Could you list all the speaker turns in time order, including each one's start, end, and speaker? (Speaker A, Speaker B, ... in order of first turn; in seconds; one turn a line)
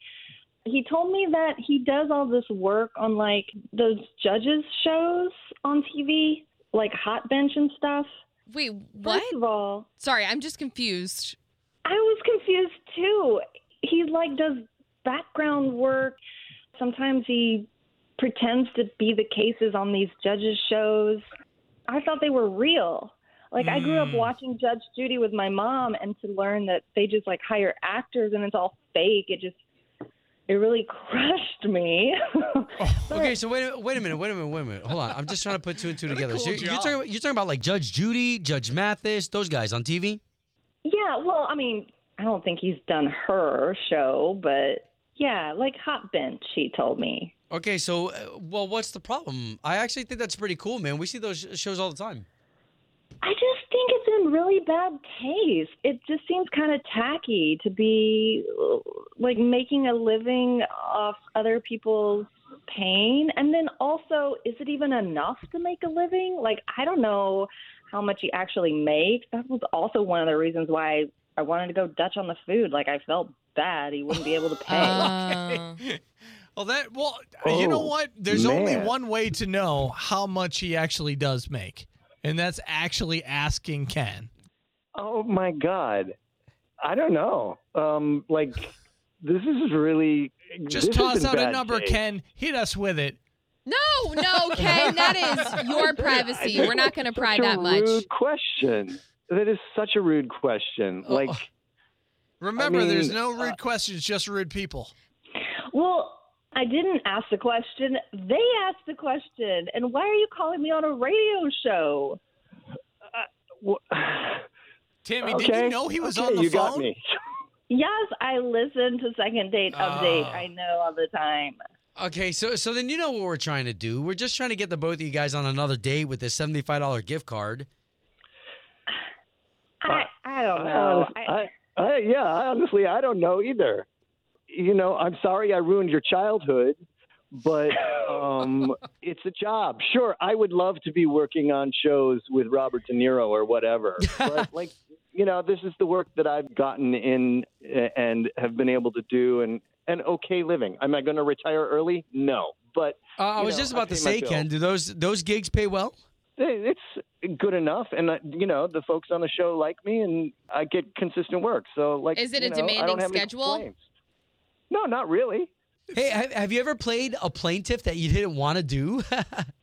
Speaker A: 0.7-8.1
Speaker B: 8.5-9.4
Speaker A: 9.0-9.9
Speaker B: 10.0-11.4
Speaker A: 11.8-16.2
Speaker A: 16.8-21.2
Speaker A: 21.9-29.6
Speaker C: 23.6-24.4
Speaker A: 30.5-33.3
Speaker C: 32.8-33.2
Speaker D: 33.1-40.2
Speaker C: 36.1-37.0
Speaker A: 40.8-47.3
Speaker D: 47.5-52.2
Speaker A: 53.2-75.0
Speaker C: 74.1-76.0
Speaker B: 74.7-75.8
Speaker C: 76.5-84.3
Speaker E: 77.4-78.9
Speaker E: 85.0-86.1
Speaker E: 86.8-92.0
Speaker C: 90.7-93.2
Speaker B: 93.7-98.0
Speaker C: 94.5-95.8
Speaker E: 95.8-101.4
Speaker D: 101.0-101.4
Speaker C: 102.4-104.9
Speaker E: 102.6-103.5
Speaker A: 105.7-112.2
Speaker E: 113.1-114.4
Speaker C: 115.0-116.9
Speaker E: 115.2-117.0
Speaker A: 117.7-121.6
Speaker C: 119.7-120.5
Speaker D: 122.0-127.7
Speaker A: 129.8-131.4
Speaker E: 130.6-133.8
Speaker E: 134.5-136.8
Speaker E: 137.3-154.4
Speaker D: 144.0-144.4
Speaker D: 153.2-155.9
Speaker E: 156.4-163.7
Speaker B: 162.1-163.7
Speaker E: 164.7-165.5
Speaker D: 165.9-169.5